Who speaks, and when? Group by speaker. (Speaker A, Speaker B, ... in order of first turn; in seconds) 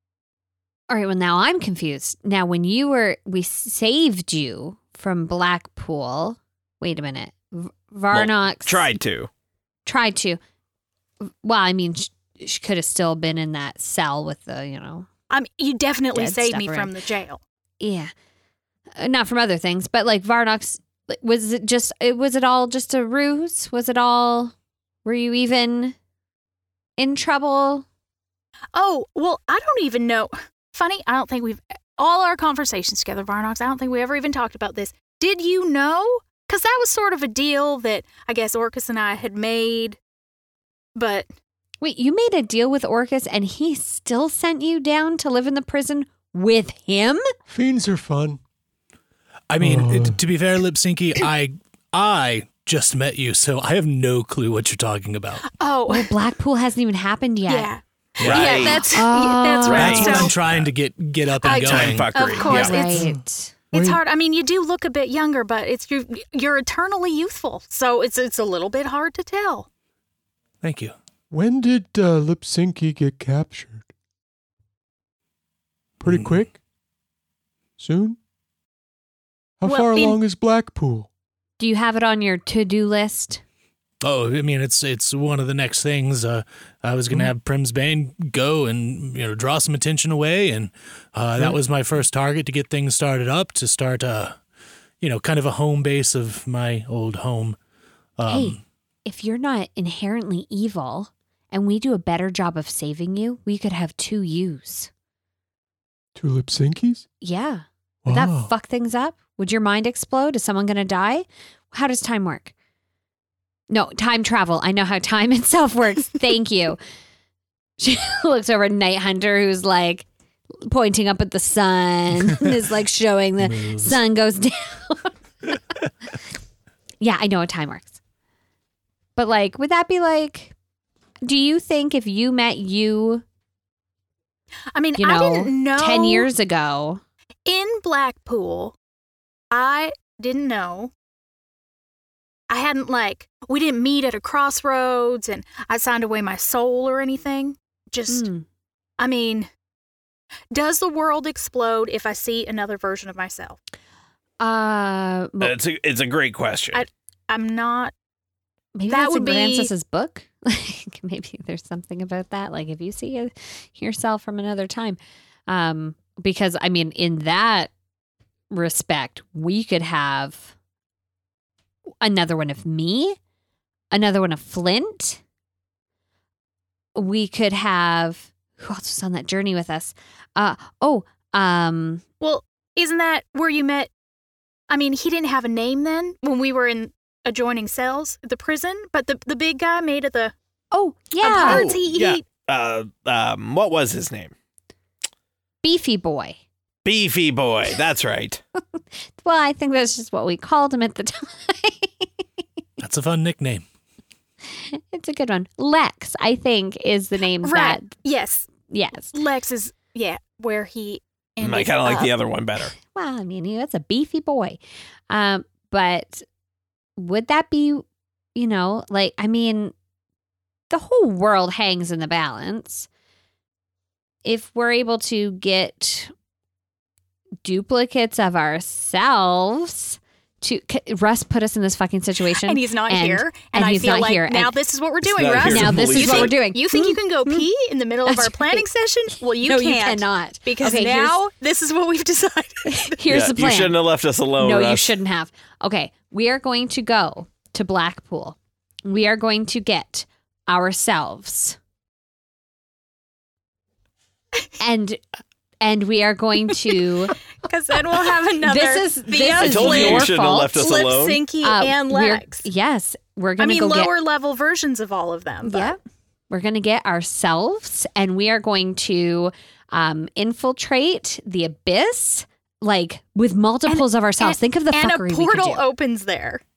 Speaker A: 0.9-8.9, 9.9-10.4, 11.2-15.1, 16.1-16.9, 17.8-18.1, 19.0-24.5, 25.1-26.0, 27.0-27.9, 41.8-47.2, 55.9-57.7, 58.6-60.3, 62.4-63.5, 81.6-83.4, 98.3-104.9, 107.2-112.5, 113.7-116.8, 117.8-120.1, 120.6-125.1, 127.0-128.0, 129.2-130.5, 131.2-133.2, 135.0-137.0, 148.1-148.4, 154.4-155.6, 158.8-167.7, 168.5-170.5, 172.0-173.2, 173.9-175.2, 176.9-182.0, 190.7-191.7, 195.6-196.4, 199.2-202.2, 204.5-207.9, 208.7-209.2, 212.8-216.2, 217.0-217.8, 218.3-219.7, 220.7-222.9, 224.2-226.1, 227.4-234.6, 235.4-237.5, 238.1-238.7, 239.4-241.2, 242.7-251.6, 254.6-255.0, 255.6-257.2, 258.4-260.7, 261.4-263.9, 265.4-265.8, 266.3-275.6
Speaker B: 8.1-9.3, 58.2-58.9, 59.7-60.7, 61.4-62.8, 155.4-156.8, 191.4-194.3, 196.8-198.4, 211.4-212.7, 235.0-236.4, 243.1-245.0, 259.4-261.2
Speaker C: 15.3-17.4, 28.7-40.0, 41.0-41.3, 55.5-56.1, 57.5-60.4, 61.4-63.1, 63.7-69.7, 79.7-80.2, 134.7-136.3, 137.5-138.8, 139.5-140.9, 142.5-148.3, 149.0-149.5, 150.5-153.6, 156.7-157.9, 158.9-159.7, 182.2-183.9, 184.7-190.3, 191.2-192.3, 207.4-208.5, 209.1-212.1, 232.3-243.0, 257.4-262.5, 263.4-265.8, 273.7-276.4
Speaker D: 47.5-48.4, 49.6-50.2, 62.9-63.2, 63.7-64.0, 71.3-73.9, 76.0-76.6, 77.8-78.2, 79.6-81.1, 106.2-107.0, 108.0-108.5
Speaker E: 49.5-55.5, 58.2-58.7, 59.7-62.1, 70.6-71.0, 76.0-76.5, 84.0-94.4, 95.0-97.6, 98.2-98.6, 123.4-124.0, 202.8-203.7